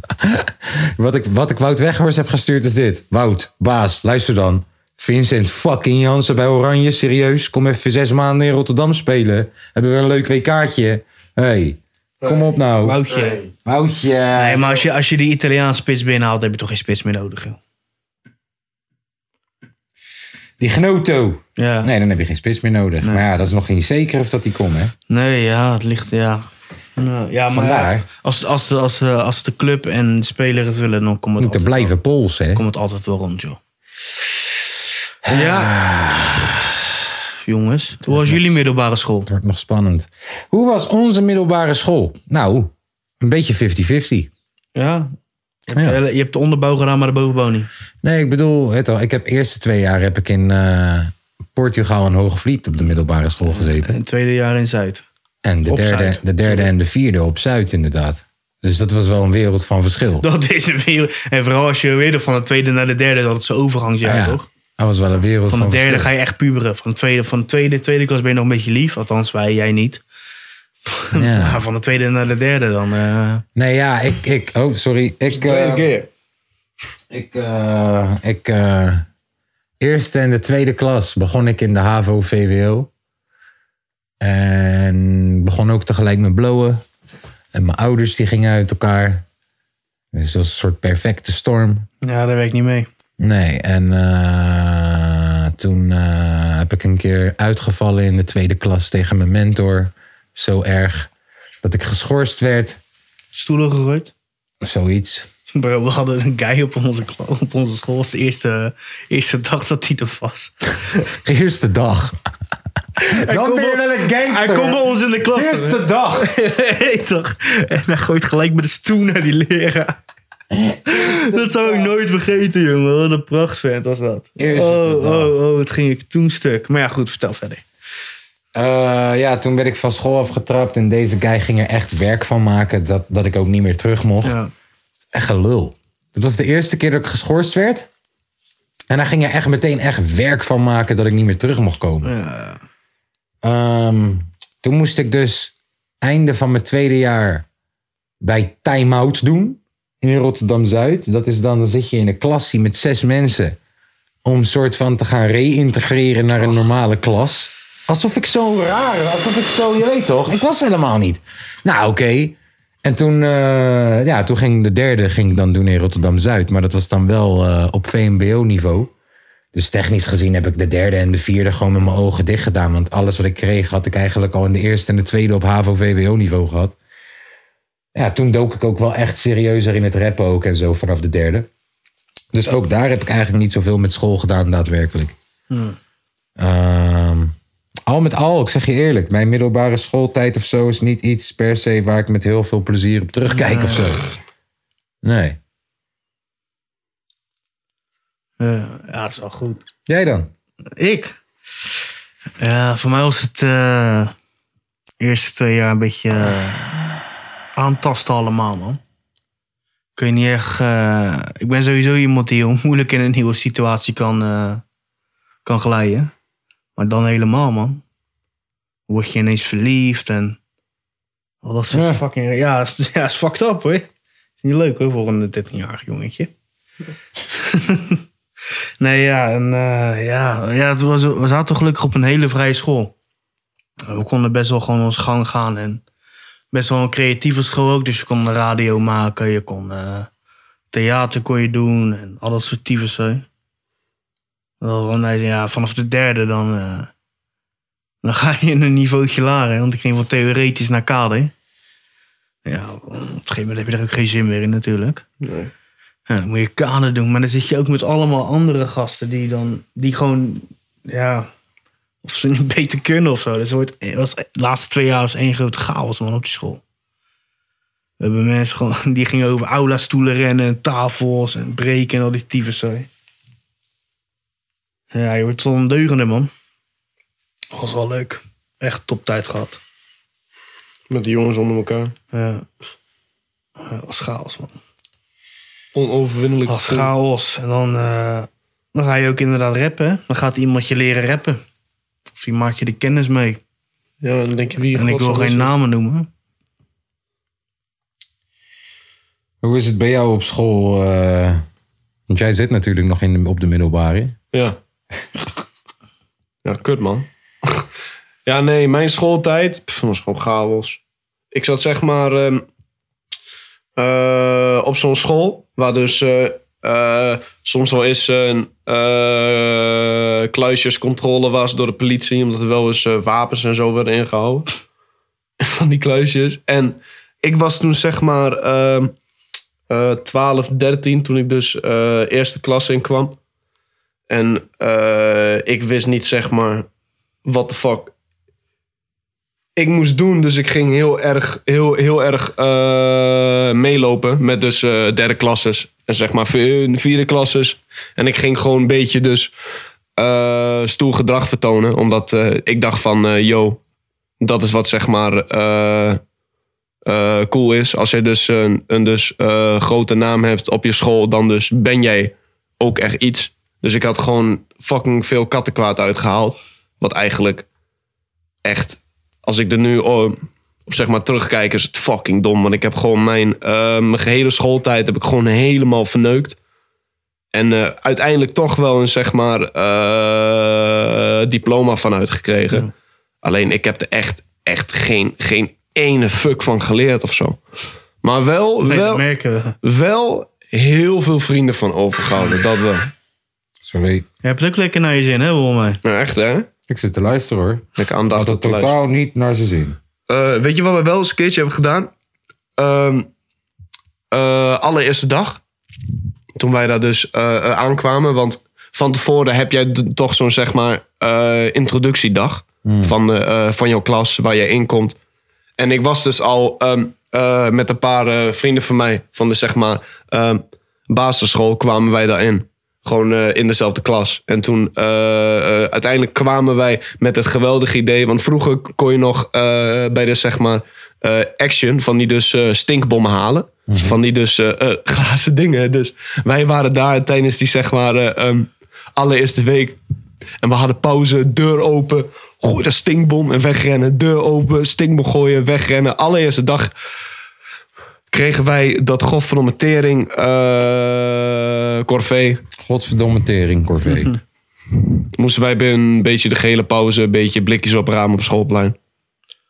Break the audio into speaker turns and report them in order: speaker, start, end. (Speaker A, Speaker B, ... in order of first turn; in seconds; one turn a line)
Speaker A: 0.2-13.0
Speaker B: 12.8-13.4
Speaker C: 13.1-13.4
Speaker A: 13.6-14.8
Speaker B: 14.4-17.6
Speaker A: 20.6-24.9
Speaker B: 21.6-21.9
Speaker B: 25.1-26.4
Speaker B: 27.0-31.9
Speaker A: 27.5-28.1
Speaker A: 31.4-32.6
Speaker B: 32.5-33.6
Speaker A: 35.2-36.8
Speaker B: 35.3-35.7
Speaker B: 37.5-39.3
Speaker A: 38.1-38.4
Speaker A: 39.3-44.3
Speaker B: 44.7-45.1
Speaker B: 45.7-47.7
Speaker A: 48.0-54.0
Speaker B: 53.5-55.0
Speaker A: 55.4-60.3
Speaker B: 55.7-56.7
Speaker B: 60.2-64.5
Speaker A: 64.0-66.1
Speaker B: 65.5-70.0
Speaker B: 70.9-73.5
Speaker A: 71.1-71.6
Speaker A: 73.5-75.9
Speaker C: 75.3-76.1
Speaker A: 77.1-79.0
Speaker A: 79.8-82.9
Speaker A: 84.2-86.8
Speaker A: 87.5-89.2
Speaker A: 90.1-91.9
Speaker B: 92.0-92.9
Speaker A: 93.2-101.1
Speaker A: 101.6-102.8
Speaker B: 103.3-104.1
Speaker A: 104.6-105.3
Speaker B: 105.5-110.5
Speaker A: 111.1-112.2
Speaker B: 113.0-120.0
Speaker A: 113.1-116.3
Speaker A: 120.5-121.9
Speaker B: 120.9-127.6
Speaker A: 124.4-125.3
Speaker A: 128.5-134.3
Speaker B: 134.2-134.5
Speaker A: 135.1-137.9
Speaker A: 138.9-142.1
Speaker B: 142.0-142.6
Speaker A: 143.4-147.4
Speaker A: 148.2-153.6
Speaker A: 154.2-168.9
Speaker A: 169.5-176.7
Speaker A: 177.9-181.5
Speaker A: 182.3-185.1
Speaker B: 185.5-185.8
Speaker A: 186.4-187.3
Speaker A: 187.9-194.0
Speaker B: 193.3-193.9
Speaker A: 195.0-195.4
Speaker B: 198.4-199.6
Speaker A: 199.9-200.3
Speaker B: 200.8-201.1
Speaker B: 202.4-204.1
Speaker B: 205.0-206.8
Speaker B: 207.6-208.8
Speaker B: 209.9-214.6
Speaker B: 215.4-216.1
Speaker B: 216.8-217.8
Speaker B: 218.9-220.4
Speaker B: 221.4-223.9
Speaker A: 221.7-222.0
Speaker B: 224.4-226.3
Speaker B: 227.3-228.0
Speaker B: 228.8-232.9
Speaker B: 233.9-235.8
Speaker B: 236.5-240.1
Speaker B: 240.7-243.2
Speaker B: 244.6-246.9
Speaker B: 248.0-251.3
Speaker B: 252.4-255.0
Speaker C: 255.2-255.5
Speaker B: 256.1-261.3
Speaker B: 262.0-266.6
Speaker B: 268.0-272.9
Speaker B: 274.9-276.3
Speaker B: 277.5-279.6
Speaker C: 280.9-281.9
Speaker B: 282.1-282.4
Speaker B: 283.6-284.6
Speaker C: 285.7-286.9
Speaker B: 286.5-291.4
Speaker B: 292.1-293.4
Speaker C: 294.0-295.5
Speaker B: 294.7-296.1
Speaker A: 299.4-301.4
Speaker A: 302.1-304.1
Speaker C: 306.4-307.7
Speaker C: 308.3-310.8
Speaker C: 311.3-312.4
Speaker C: 313.8-324.5
Speaker C: 325.4-328.9
Speaker C: 329.7-333.2
Speaker C: 334.1-336.7
Speaker C: 337.2-337.9
Speaker C: 339.6-349.3
Speaker C: 349.9-353.6
Speaker C: 354.2-356.0
Speaker C: 356.9-367.4
Speaker C: 368.4-370.2
Speaker C: 370.7-376.4
Speaker C: 377.3-382.7
Speaker C: 383.2-387.4
Speaker C: 388.0-389.0
Speaker B: 388.7-389.6
Speaker C: 389.6-392.9
Speaker A: 393.6-394.1
Speaker B: 394.2-395.8
Speaker C: 395.8-396.5
Speaker A: 396.7-399.8
Speaker C: 397.8-398.7
Speaker C: 400.1-401.9
Speaker C: 402.6-403.1
Speaker C: 404.1-405.4
Speaker C: 406.4-415.0
Speaker A: 412.6-412.9
Speaker C: 415.6-439.8
Speaker A: 433.7-434.0
Speaker C: 440.4-446.7
Speaker C: 448.1-452.4
Speaker A: 452.6-454.1
Speaker C: 455.2-458.8